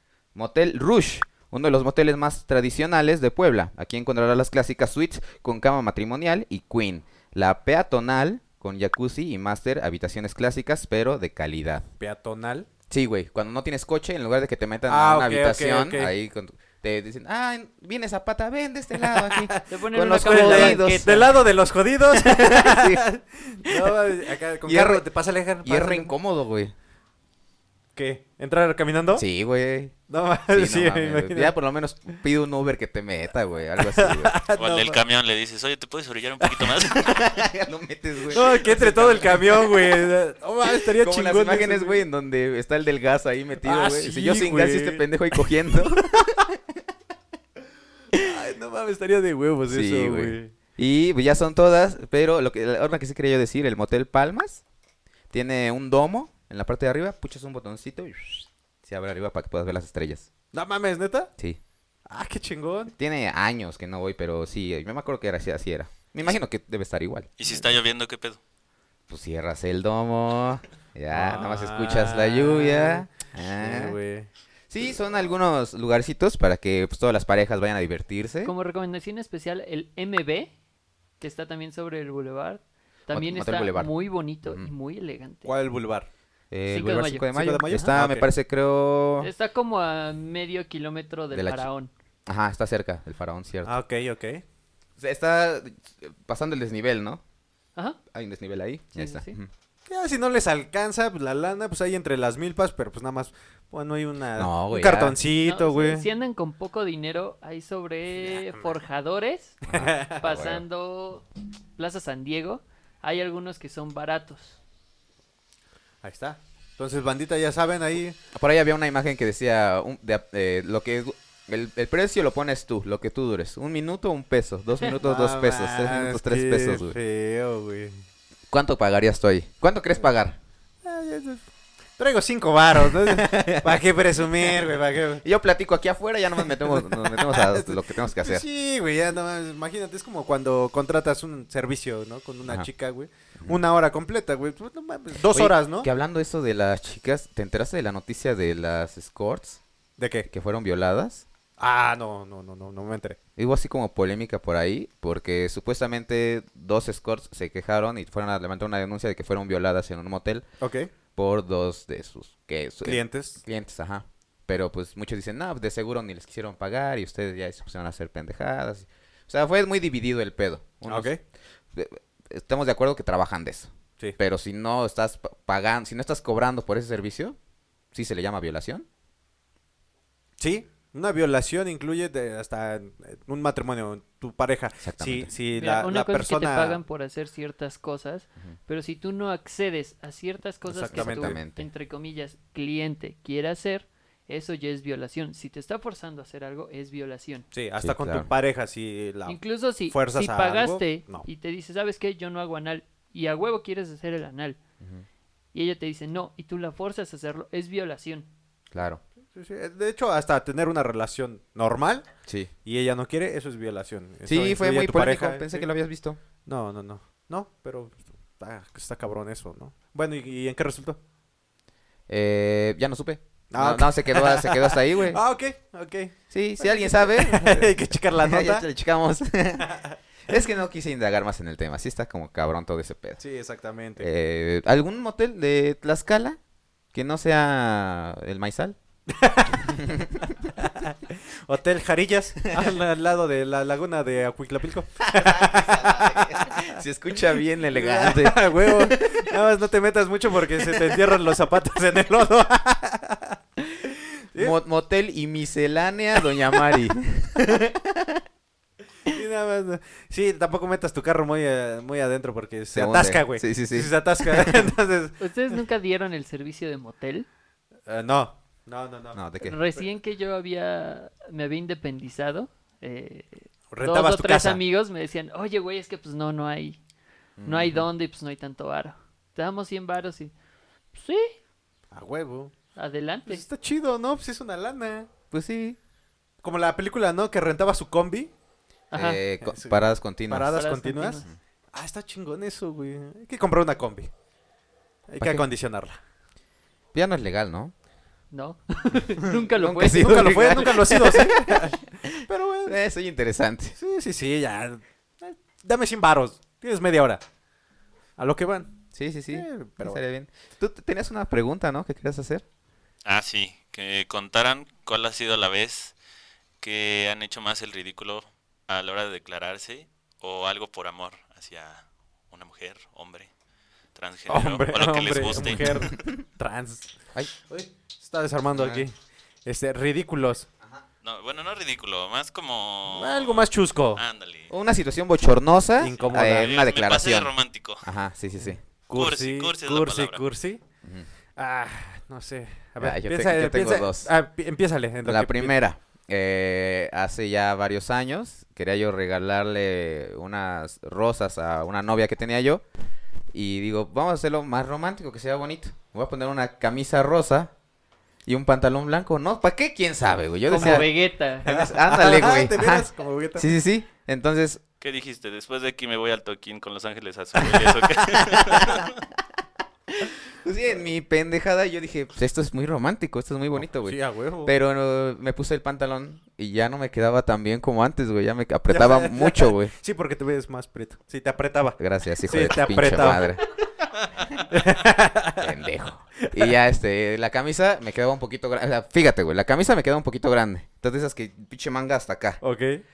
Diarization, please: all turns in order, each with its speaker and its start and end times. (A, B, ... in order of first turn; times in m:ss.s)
0:00.3-0:11.9 A
0:12.0-0:12.7 B
0:12.9-0:21.4 A
0:14.9-0:16.1 B
0:19.0-0:26.1 B
0:19.7-0:21.2 C
0:22.1-0:23.0 A
0:23.7-0:24.0 A
0:24.6-0:25.0 A
0:25.6-0:26.7 A
0:27.9-0:29.2 B
0:29.2-0:30.0 A
0:30.1-0:31.5 B
0:30.5-0:34.4 A
0:33.8-0:35.0 B
0:34.6-0:37.2 D
0:36.9-0:46.8 A
0:38.3-0:42.0 B
0:43.6-0:45.0 B
0:48.1-0:50.5 B
0:49.7-0:54.6 A
0:55.3-1:00.3 A
1:00.5-1:01.3 B
1:02.1-1:02.9 B
1:03.0-1:07.3 A
1:07.4-1:08.4 D
1:09.1-1:14.0 A
1:11.1-1:14.3 B
1:14.7-1:18.5 A
1:18.4-1:20.5 C
1:21.2-1:25.5 C
1:23.1-1:23.9 A
1:24.4-1:24.7 A
1:25.4-1:26.1 B
1:26.5-1:29.3 A
1:26.7-1:27.9 C
1:27.3-1:28.3 B
1:29.2-1:31.9 C
1:31.3-1:31.7 A
1:32.3-1:33.8 A
1:33.6-1:34.4 B
1:35.0-1:37.2 A
1:38.1-1:39.5 A
1:38.9-1:39.4 C
1:39.9-1:46.1 B
1:44.4-1:45.2 A
1:45.4-1:49.6 C
1:48.2-1:48.7 B
1:49.7-1:50.6 A
1:49.7-1:50.2 B
1:50.2-1:51.2 C
1:51.8-1:54.6 C
1:56.0-1:58.2 B
1:58.3-2:07.0 A
2:04.8-2:08.0 B
2:08.5-2:10.4 A
2:10.8-2:11.4 B
2:12.0-2:15.2 B
2:12.8-2:13.8 A
2:15.2-2:18.4 A
2:16.4-2:25.9 B
2:25.2-2:29.6 A
2:30.0-2:30.3 B
2:30.3-2:31.2 A
2:31.6-2:33.2 B
2:33.4-2:40.4 A
2:40.6-2:40.9 B
2:41.1-2:51.1 A
2:42.8-2:43.4 B
2:50.8-2:51.2 B
2:51.7-2:57.4 A
2:57.9-2:58.8 A
3:00.4-3:06.8 B
3:04.8-3:05.3 A
3:05.5-3:17.4 C
3:10.7-3:11.4 B
3:10.9-3:11.7 A
3:17.5-3:21.3 B
3:17.8-3:18.3 A
3:19.3-3:24.6 C
3:25.5-3:28.3 C
3:28.7-3:29.0 A
3:29.3-3:32.1 B
3:32.3-3:32.5 A
3:32.6-3:35.7 B
3:34.2-3:36.2 A
3:36.4-3:41.0 B
3:42.1-3:45.2 A
3:43.5-3:48.6 B
3:46.3-3:49.7 A
3:49.6-3:50.0 B
3:50.3-3:53.2 A
3:53.2-3:54.1 B
3:54.0-3:56.4 A
3:56.9-3:58.8 A
3:59.1-3:59.9 B
3:59.7-4:00.3 A
4:00.6-4:06.8 B
4:05.0-4:09.3 A
4:07.7-4:14.5 B
4:10.6-4:11.0 A
4:14.4-4:18.2 A
4:19.0-4:25.2 B
4:22.7-4:24.5 A
4:25.2-4:27.3 C
4:27.9-4:29.2 B
4:29.1-4:29.6 A
4:29.4-4:36.8 C
4:33.7-4:34.6 B
4:37.4-4:37.9 A
4:37.4-4:40.3 C
4:40.9-4:41.3 C
4:41.9-4:42.5 B
4:42.8-4:43.4 C
4:43.2-4:45.1 B
4:45.3-4:45.8 A
4:46.4-4:48.3 B
4:48.9-4:49.2 C
4:48.9-4:50.6 A
4:49.4-4:54.1 B
4:50.5-4:51.3 C
4:55.1-4:56.0 B
4:55.2-4:55.4 A
4:56.9-4:57.7 A
4:58.3-5:00.7 C
4:59.3-5:03.8 A
4:59.8-5:02.8 B
5:03.8-5:07.2 B
5:08.2-5:08.7 B
5:08.9-5:12.4 A
5:09.3-5:10.0 B
5:13.0-5:15.9 D
5:16.6-5:23.3 D
5:23.9-5:25.9 D
5:24.3-5:26.9 B
5:25.5-5:26.0 A
5:27.5-5:30.5 B
5:28.5-5:28.8 A
5:31.0-5:34.5 D
5:32.9-5:34.0 B
5:34.5-5:38.6 A
5:35.8-5:36.5 B
5:36.0-5:37.9 D
5:38.4-5:40.6 B
5:38.9-5:40.2 D
5:41.4-5:45.5 B
5:42.8-5:44.1 A
5:45.0-5:52.6 A
5:53.3-5:57.5 A
5:58.2-6:00.9 A
6:00.5-6:01.4 C
6:01.4-6:04.6 A
6:01.4-6:03.5 B
6:04.8-6:09.0 D
6:07.5-6:08.7 B
6:08.5-6:08.8 A
6:09.9-6:19.7 A
6:13.6-6:14.5 B
6:18.7-6:23.4 B
6:21.8-6:23.4 A
6:24.5-6:25.6 B
6:25.4-6:32.4 A
6:26.2-6:26.5 B
6:32.4-6:32.8 B